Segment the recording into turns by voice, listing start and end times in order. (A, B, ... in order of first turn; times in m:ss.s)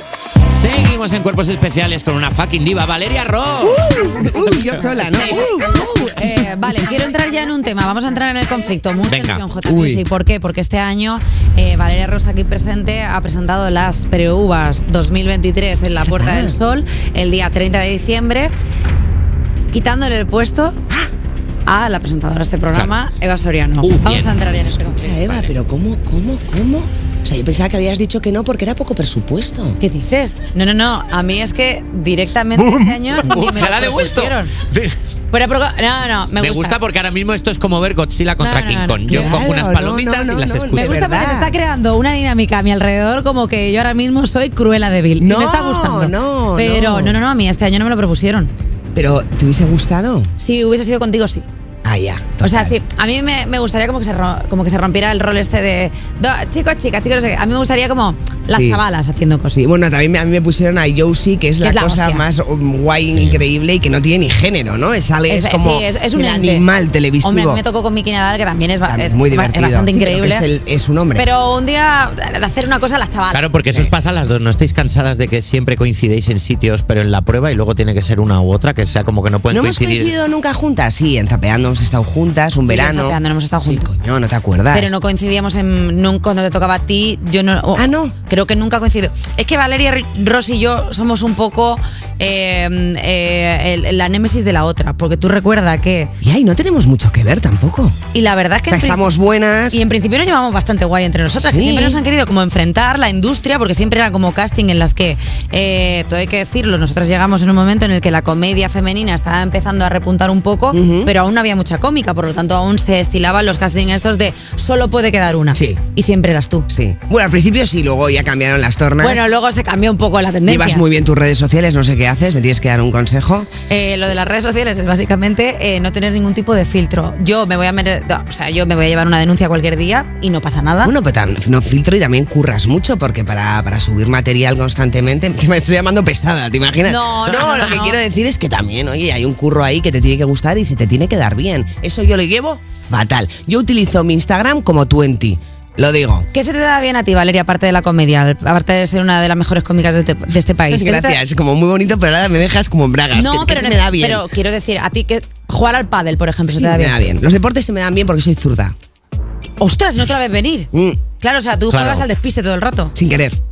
0:00.6-0:03.8 A
0:03.6-0:05.7 B
0:05.0-0:18.5 C
0:09.1-0:09.4 A
0:09.6-0:10.0 B
0:16.0-0:16.6 B
0:19.7-0:20.8 C
0:21.6-0:25.2 C
0:23.8-0:24.3 A
0:25.0-0:29.8 B
0:29.8-0:34.5 C
0:32.6-0:35.0 A
0:35.3-0:36.8 C
0:36.4-0:40.9 A
0:38.4-0:39.4 C
0:39.1-0:41.5 B
0:40.7-0:48.5 C
0:45.2-0:47.2 B
0:48.9-0:50.3 B
0:50.4-0:51.4 C
0:51.8-0:52.8 B
0:52.4-0:59.6 C
0:58.5-0:58.8 B
0:59.5-1:07.6 B
1:01.6-1:02.3 C
1:05.3-1:06.6 C
1:07.2-1:10.4 C
1:08.9-1:11.3 B
1:11.2-1:13.5 C
1:13.3-1:20.1 A
1:19.5-1:24.9 B
1:22.6-1:23.9 C
1:24.7-1:36.1 C
1:27.7-1:28.1 B
1:36.2-1:38.0 B
1:38.1-1:39.1 C
1:38.7-1:39.8 B
1:39.7-1:56.7 C
1:41.4-1:42.0 B
1:50.7-1:51.1 B
1:55.5-1:55.8 B
1:56.7-1:59.2 B
1:59.0-2:00.8 C
2:00.4-2:03.5 B
2:03.7-2:10.9 C
2:10.8-2:26.3 B
2:16.8-2:18.0 C
2:26.3-2:31.2 C
2:30.7-2:34.3 B
2:33.1-2:37.1 C
2:36.5-2:38.7 B
2:39.6-2:42.9 C
2:40.7-2:41.0 B
2:41.7-2:42.0 A
2:42.9-2:43.4 B